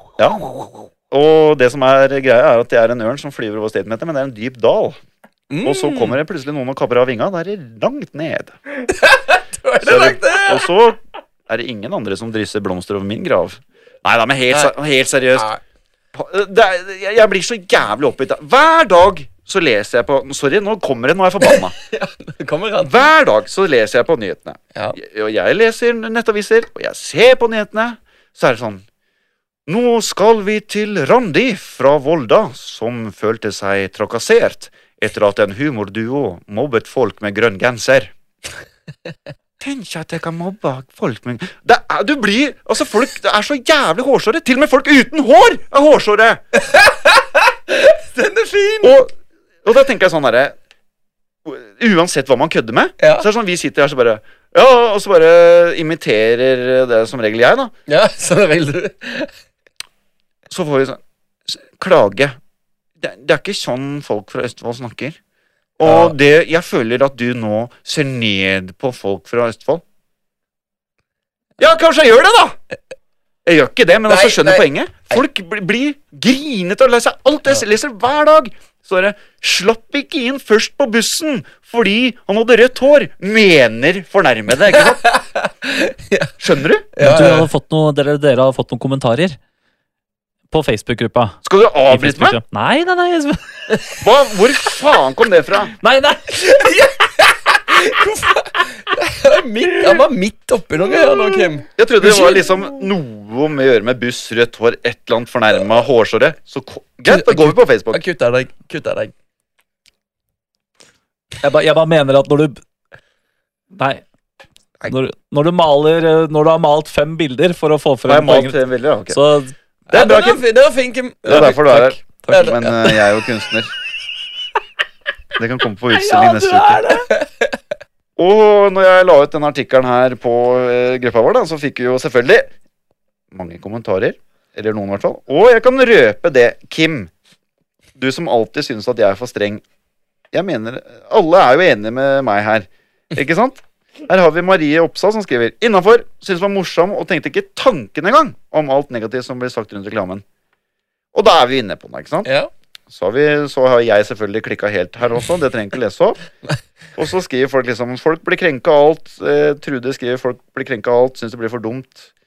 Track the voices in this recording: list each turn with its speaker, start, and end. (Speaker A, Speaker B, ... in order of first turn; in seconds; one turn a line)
Speaker A: 0.2-5.0
Speaker B: 5.5-6.2
Speaker A: 5.6-8.6
Speaker B: 8.8-10.7
Speaker A: 9.8-15.5
Speaker B: 15.3-15.6
Speaker A: 16.1-21.8
Speaker B: 21.4-23.1
Speaker A: 22.9-28.8
Speaker A: 29.7-38.1
Speaker A: 39.6-46.4
Speaker B: 46.5-48.9
Speaker A: 48.8-50.5
Speaker A: 51.5-57.7
Speaker B: 53.0-53.3
Speaker B: 57.9-59.3
Speaker A: 60.5-62.4
Speaker A: 63.0-65.2
Speaker A: 65.8-69.8
Speaker B: 65.8-66.1
Speaker A: 71.6-72.6
Speaker A: 73.5-85.0
Speaker B: 74.1-75.2
Speaker B: 84.7-86.4
Speaker A: 86.4-86.9
Speaker B: 86.9-87.5
Speaker C: 87.0-89.4
Speaker C: 90.5-93.8
Speaker A: 91.4-92.4
Speaker A: 94.0-95.7
Speaker C: 95.8-96.2
Speaker B: 96.3-102.5
Speaker A: 101.8-108.0
Speaker B: 107.1-109.1
Speaker C: 111.4-112.6
Speaker C: 113.8-114.0
Speaker C: 114.9-118.5
Speaker A: 118.1-119.2
Speaker C: 119.1-119.5
Speaker B: 119.9-123.0
Speaker A: 119.9-120.4
Speaker A: 121.3-123.7
Speaker A: 125.4-126.8
Speaker C: 125.9-127.1
Speaker B: 126.9-127.5
Speaker A: 128.2-132.5
Speaker A: 133.3-137.1
Speaker A: 138.0-139.6
Speaker A: 140.3-150.2
Speaker A: 151.1-152.3
Speaker B: 152.2-152.5
Speaker A: 152.9-156.2
Speaker A: 157.0-162.1